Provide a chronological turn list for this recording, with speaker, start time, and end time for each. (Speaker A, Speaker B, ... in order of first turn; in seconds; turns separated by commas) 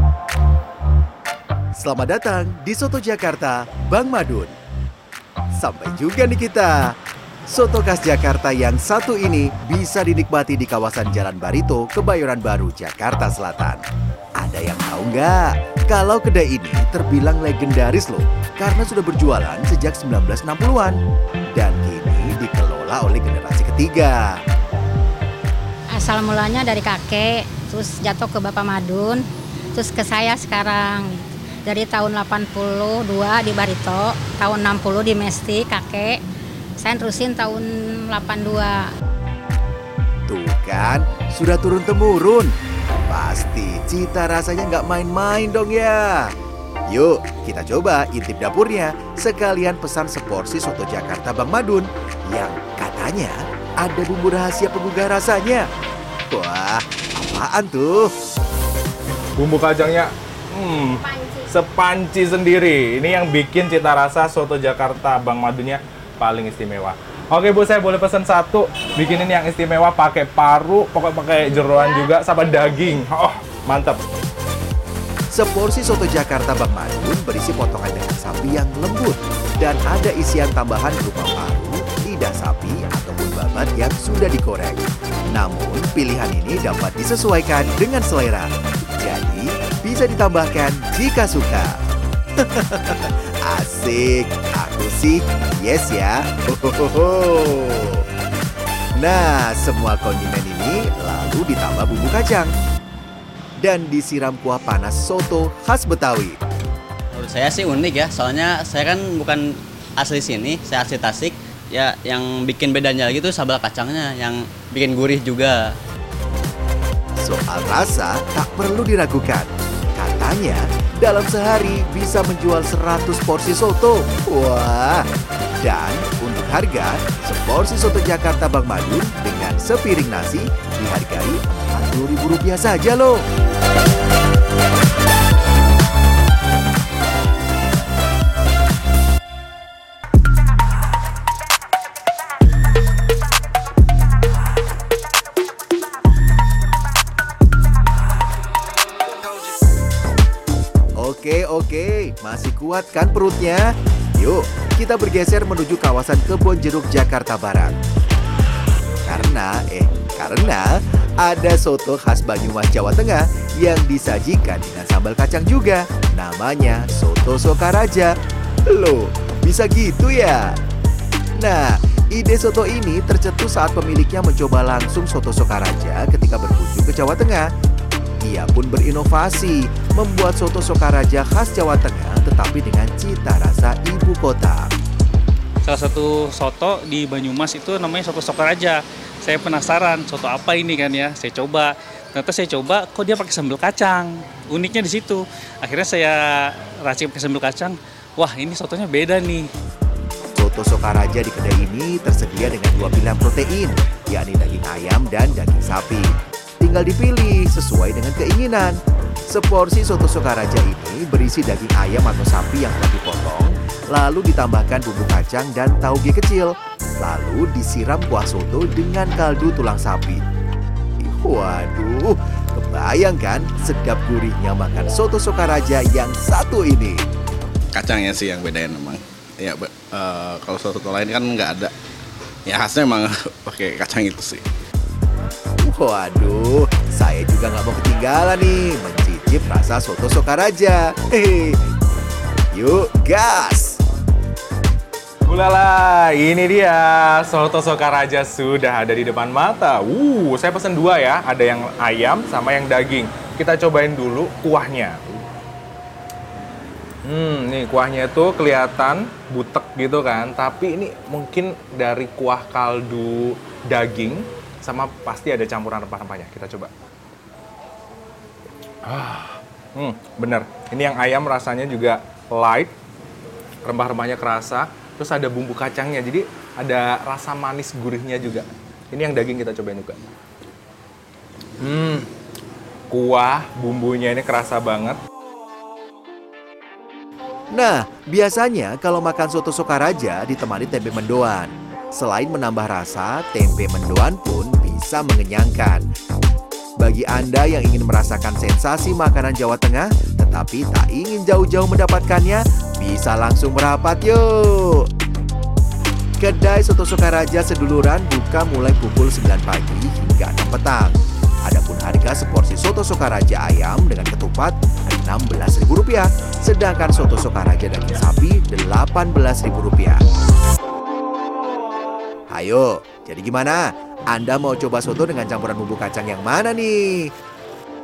Speaker A: 1.8-4.5, Speaker A: 5.6-7.0, Speaker A: 7.5-13.8, Speaker A: 14.4-21.0, Speaker A: 21.5-24.4, Speaker B: 25.9-36.2, Speaker B: 36.8-38.9, Speaker A: 40.3-42.5, Speaker A: 43.1-46.3, Speaker A: 46.9-55.7, Speaker A: 56.3-58.1, Speaker C: 59.4-74.0, Speaker A: 75.3-91.8, Speaker A: 92.4-98.0, Speaker A: 99.0-102.5, Speaker A: 103.6-106.4, Speaker D: 107.1-109.4, Speaker D: 110.0-115.7, Speaker A: 117.2-125.1, Speaker A: 125.6-133.2, Speaker A: 151.0-157.8, Speaker A: 159.0-168.1, Speaker A: 168.7-170.6, Speaker A: 171.4-177.5, Speaker A: 178.2-184.7, Speaker E: 185.6-199.5, Speaker A: 200.3-208.8, Speaker A: 209.3-220.2, Speaker A: 221.0-227.0, Speaker F: 227.7-231.7, Speaker F: 232.4-234.4, Speaker A: 235.6-241.6, Speaker A: 242.5-243.8, Speaker C: 245.2-255.3, Speaker C: 257.0-266.7, Speaker C: 268.8-272.7, Speaker C: 273.6-280.0, Speaker C: 281.6-282.1, Speaker C: 282.9-285.0, Speaker A: 287.5-295.9, Speaker A: 296.8-304.9, Speaker A: 306.2-320.0, Speaker A: 322.3-327.1